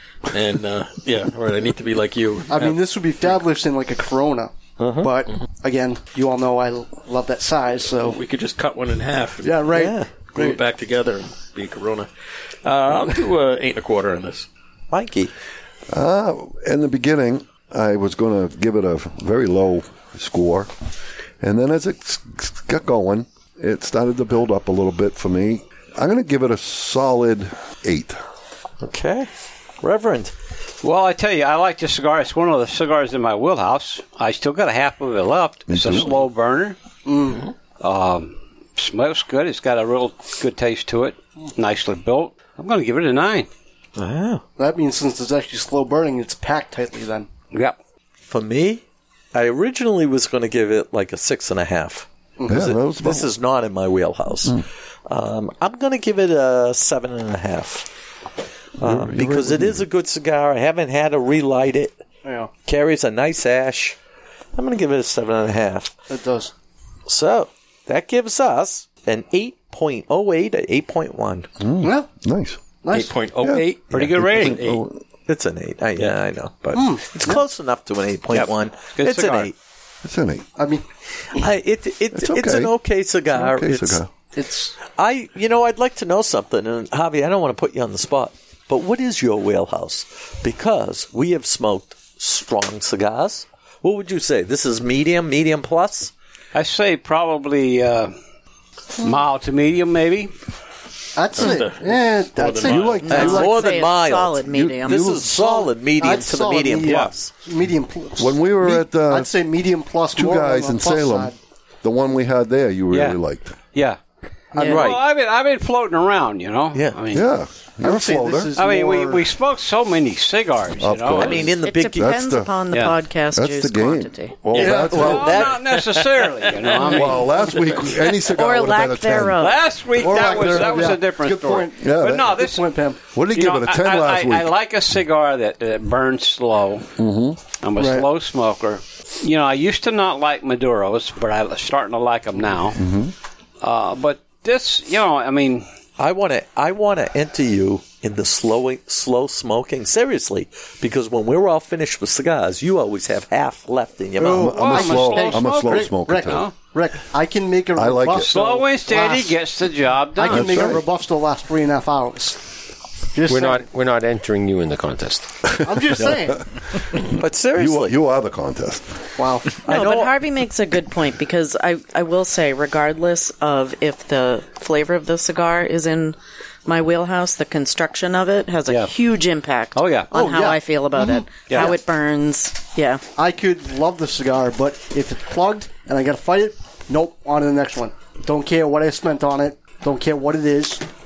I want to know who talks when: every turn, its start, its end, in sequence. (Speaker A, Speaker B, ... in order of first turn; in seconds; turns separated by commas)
Speaker A: 0.3-2.8, Speaker B: 2.5-8.2, Speaker C: 4.8-5.1, Speaker A: 8.0-9.8, Speaker B: 9.4-10.5, Speaker C: 9.7-10.1, Speaker A: 10.3-12.1, Speaker A: 12.6-14.5, Speaker C: 14.9-15.3, Speaker D: 15.9-20.7, Speaker D: 21.4-28.2, Speaker C: 28.8-29.3, Speaker C: 29.8-30.3, Speaker E: 30.8-36.8, Speaker D: 35.7-36.1, Speaker B: 37.0-37.5, Speaker E: 37.8-43.5, Speaker C: 44.0-44.4, Speaker B: 44.6-47.3, Speaker C: 48.2-57.9, Speaker B: 52.4-52.6, Speaker D: 52.5-53.3, Speaker C: 58.8-62.0, Speaker D: 58.8-59.8, Speaker B: 62.2-62.5, Speaker C: 62.6-64.0, Speaker C: 64.5-65.9, Speaker B: 66.1-66.5, Speaker C: 67.0-71.5, Speaker D: 71.6-72.6, Speaker B: 71.8-72.1, Speaker B: 72.8-73.1, Speaker A: 72.9-74.8, Speaker D: 73.4-75.0, Speaker E: 73.9-74.6, Speaker C: 75.3-79.5, Speaker B: 76.7-77.3, Speaker E: 78.3-79.5, Speaker D: 80.0-80.5, Speaker B: 80.6-80.8, Speaker C: 81.3-84.0, Speaker D: 82.1-82.7, Speaker D: 83.3-84.1, Speaker B: 84.3-84.7, Speaker C: 85.0-96.1, Speaker E: 96.5-98.1, Speaker E: 99.0-100.3, Speaker B: 101.1-103.0, Speaker A: 101.3-103.3, Speaker D: 102.4-103.6, Speaker F: 103.0-105.5, Speaker C: 103.1-107.3, Speaker D: 104.5-105.1, Speaker B: 106.0-111.3, Speaker E: 106.8-107.1, Speaker D: 108.2-109.3, Speaker D: 110.1-111.3, Speaker D: 111.8-113.5, Speaker E: 112.9-113.2, Speaker E: 113.7-114.0, Speaker F: 114.6-114.9, Speaker C: 114.6-115.0, Speaker E: 114.6-117.3, Speaker C: 116.7-117.0, Speaker D: 117.1-118.5, Speaker B: 117.8-119.3, Speaker E: 118.5-121.4, Speaker D: 120.8-122.5, Speaker C: 121.1-122.0, Speaker F: 121.4-124.4, Speaker E: 122.7-122.9, Speaker D: 123.3-125.4, Speaker C: 124.5-125.6, Speaker B: 124.5-125.5, Speaker E: 124.8-127.3, Speaker A: 126.8-128.1, Speaker D: 126.9-129.4, Speaker F: 128.3-129.6, Speaker E: 129.4-132.6, Speaker B: 129.9-133.0, Speaker D: 130.3-131.0, Speaker D: 131.8-132.3, Speaker D: 133.1-134.5, Speaker E: 133.3-136.9, Speaker D: 137.0-137.4, Speaker E: 137.6-142.8, Speaker B: 137.8-138.1, Speaker D: 142.8-143.1, Speaker E: 143.6-145.7, Speaker C: 146.0-154.6, Speaker B: 154.2-159.3, Speaker D: 154.2-156.5, Speaker E: 154.3-156.5, Speaker D: 157.8-158.3, Speaker E: 158.2-160.7, Speaker B: 160.2-162.5, Speaker D: 160.3-160.8, Speaker B: 163.1-163.7, Speaker G: 163.3-165.3, Speaker D: 165.4-169.0, Speaker B: 165.6-166.4, Speaker C: 167.1-168.0, Speaker B: 169.2-169.6, Speaker C: 169.7-170.1, Speaker F: 169.7-183.0, Speaker E: 178.7-178.9, Speaker E: 179.7-180.1, Speaker B: 180.1-181.8, Speaker E: 181.5-181.7, Speaker B: 183.2-190.8